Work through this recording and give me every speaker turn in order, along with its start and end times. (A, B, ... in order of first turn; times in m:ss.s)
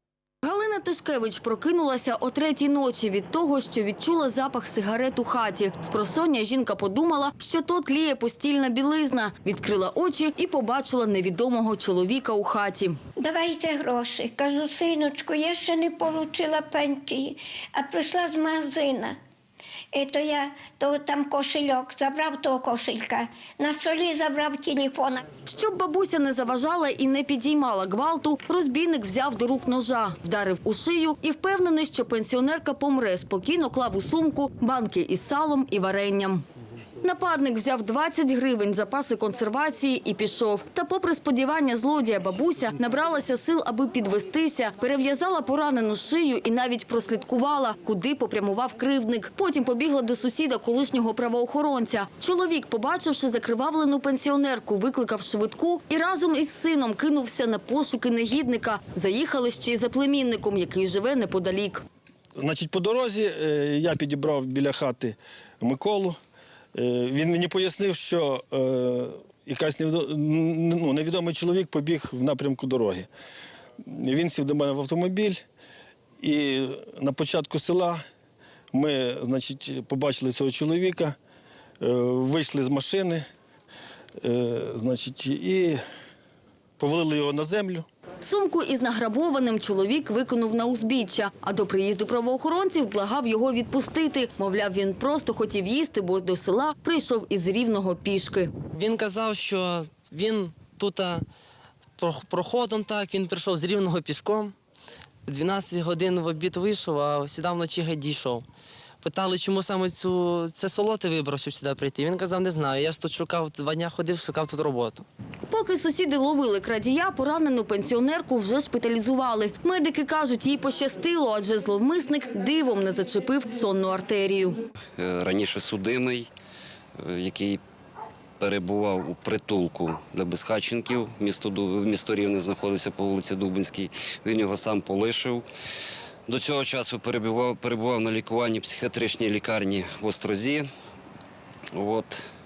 0:00.4-0:13.0 A
0:13.2-0:19.2 B
0:19.9-0:25.2 B
0:25.4-0:36.4 A
0:37.0-1:01.8 A
1:02.4-1:06.2 C
1:06.7-1:13.1 C
1:13.9-1:15.4 C
1:16.2-1:18.0 C
1:18.7-1:21.2 C
1:21.8-1:23.2 C
1:24.2-1:25.8 C
1:26.8-1:27.9 C
1:28.2-1:38.5 A
1:38.7-1:41.2 D
1:42.0-1:44.5 D
1:45.2-1:48.4 D
1:49.0-1:55.0 D
1:55.5-2:04.6 A
2:05.0-2:06.3 E
2:07.0-2:07.6 E
2:08.4-2:15.4 E
2:16.3-2:20.7 E
2:21.7-2:22.2 E